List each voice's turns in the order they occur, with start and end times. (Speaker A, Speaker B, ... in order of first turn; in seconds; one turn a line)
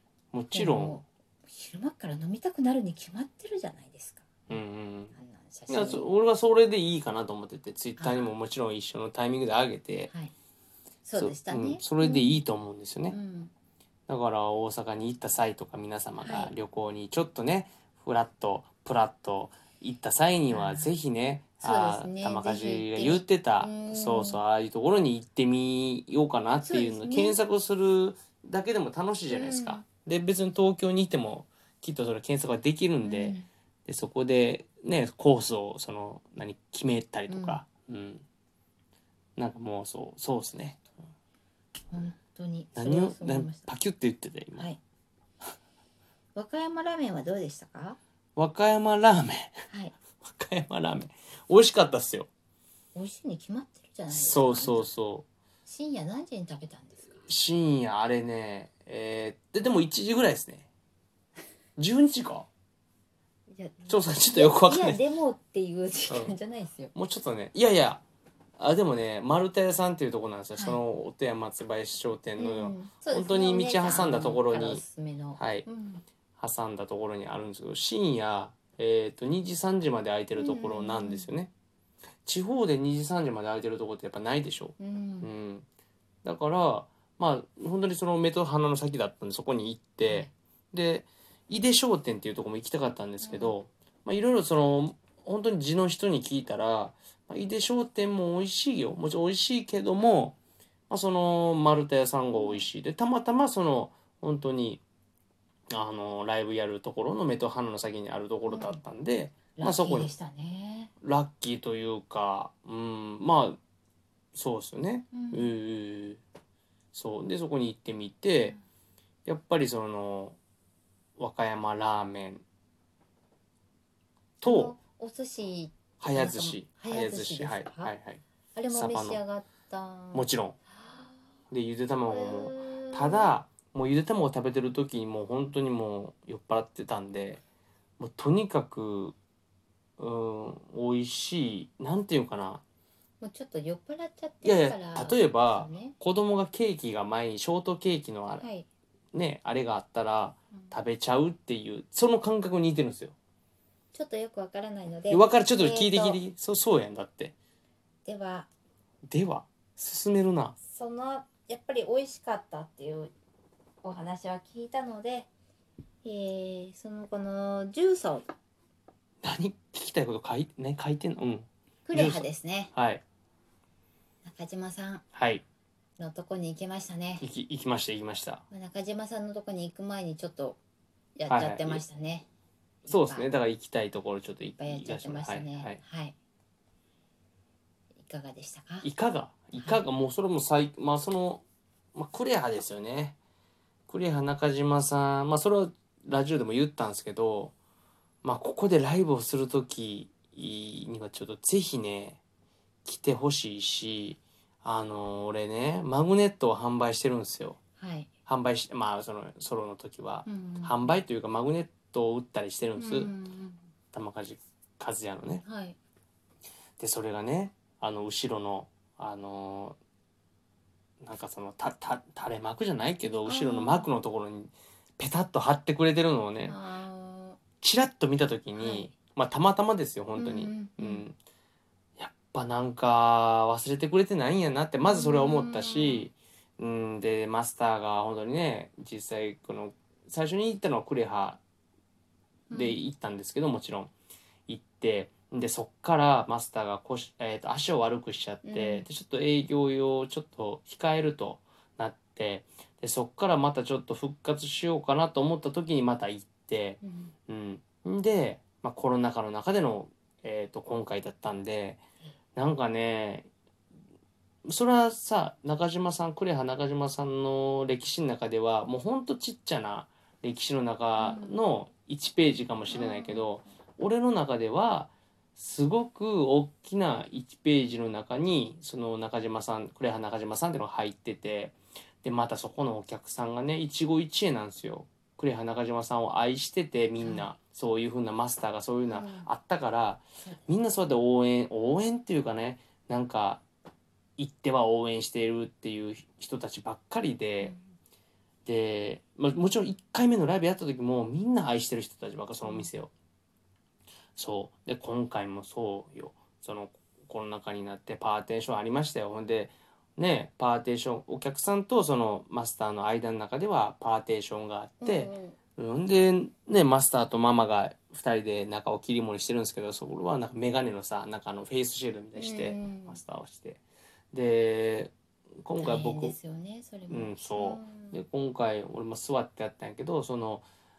Speaker A: 0.3-1.0
Speaker B: 0.5-4.6
Speaker A: 4.5-5.1
Speaker B: 5.1-6.0
Speaker A: 5.7-10.1
Speaker B: 8.0-8.3
Speaker B: 11.0-12.4
Speaker A: 11.2-13.2
Speaker B: 13.1-13.5
Speaker A: 14.1-38.2
Speaker B: 16.2-16.5
Speaker B: 20.5-20.9
Speaker B: 21.6-24.4
Speaker B: 26.6-27.4
Speaker B: 29.3-29.8
Speaker B: 33.0-33.5
Speaker B: 37.3-37.6
Speaker A: 39.4-40.8
Speaker B: 41.9-43.7
Speaker A: 42.7-44.7
Speaker B: 46.3-48.0
Speaker A: 48.4-49.6
Speaker B: 49.7-49.9
Speaker A: 50.2-52.3
Speaker B: 52.9-54.9
Speaker A: 54.1-55.2
Speaker B: 55.6-57.3
Speaker A: 57.2-60.7
Speaker A: 61.8-62.5
Speaker B: 63.5-66.9
Speaker A: 63.9-65.0
Speaker A: 66.1-66.3
Speaker A: 66.9-68.0
Speaker A: 68.6-74.8
Speaker B: 70.5-70.8
Speaker B: 72.4-76.0
Speaker A: 75.4-75.7
Speaker A: 76.4-81.5
Speaker B: 80.3-81.3
Speaker A: 82.2-85.7
Speaker B: 84.8-85.3
Speaker A: 86.2-100.4
Speaker B: 90.0-90.3
Speaker B: 93.2-93.6
Speaker A: 100.9-104.8
Speaker B: 102.3-102.6
Speaker A: 105.7-110.1
Speaker B: 108.4-108.8
Speaker B: 109.5-110.9
Speaker A: 111.0-113.6
Speaker A: 114.3-116.2
Speaker B: 115.1-115.5
Speaker A: 116.9-118.5
Speaker A: 119.2-120.4
Speaker A: 121.2-122.4
Speaker A: 124.4-124.8
Speaker B: 124.4-127.9
Speaker A: 126.0-129.2
Speaker B: 128.5-131.1
Speaker A: 130.1-130.6
Speaker A: 131.5-137.4
Speaker B: 132.1-133.3
Speaker A: 138.0-139.1
Speaker A: 140.0-142.6
Speaker B: 143.2-145.9
Speaker A: 144.4-148.4
Speaker B: 148.4-148.7
Speaker A: 149.1-153.1
Speaker B: 153.9-156.2
Speaker A: 155.1-157.3
Speaker B: 158.0-158.5
Speaker A: 159.1-160.6
Speaker B: 160.7-163.1
Speaker B: 163.8-165.3
Speaker B: 166.0-168.3
Speaker A: 169.2-173.0
Speaker B: 171.9-172.7
Speaker B: 174.2-175.0
Speaker A: 175.1-175.4
Speaker B: 176.0-177.2
Speaker A: 177.2-178.4
Speaker B: 178.5-180.6
Speaker B: 181.2-182.3
Speaker A: 181.3-181.8
Speaker B: 182.8-183.3
Speaker A: 182.9-185.8
Speaker B: 184.6-186.2
Speaker B: 188.0-188.9
Speaker A: 188.8-191.4
Speaker B: 189.6-189.8
Speaker A: 191.9-193.2
Speaker A: 193.9-197.5
Speaker A: 198.2-202.2
Speaker A: 202.8-207.6
Speaker B: 207.8-208.1
Speaker A: 208.2-213.1
Speaker B: 210.2-210.8
Speaker B: 212.8-213.6
Speaker A: 213.9-215.4
Speaker B: 215.4-215.8
Speaker A: 216.8-219.8
Speaker A: 221.0-226.6
Speaker B: 223.2-223.9
Speaker B: 226.4-227.4
Speaker A: 227.6-231.2
Speaker B: 228.5-228.9
Speaker B: 230.2-231.1
Speaker A: 232.0-241.4
Speaker B: 234.8-236.1
Speaker B: 242.5-242.8
Speaker A: 242.5-243.9
Speaker A: 244.5-261.8
Speaker B: 248.4-248.8
Speaker B: 256.8-257.1
Speaker A: 262.3-263.3
Speaker A: 264.4-293.4
Speaker B: 271.0-271.4
Speaker B: 272.7-273.3
Speaker B: 287.0-287.3
Speaker B: 288.9-289.3
Speaker A: 294.2-297.5
Speaker A: 298.4-302.9
Speaker B: 302.4-302.7
Speaker A: 304.1-326.1
Speaker B: 314.8-315.4
Speaker B: 322.1-323.0
Speaker B: 325.6-328.0
Speaker A: 326.9-330.4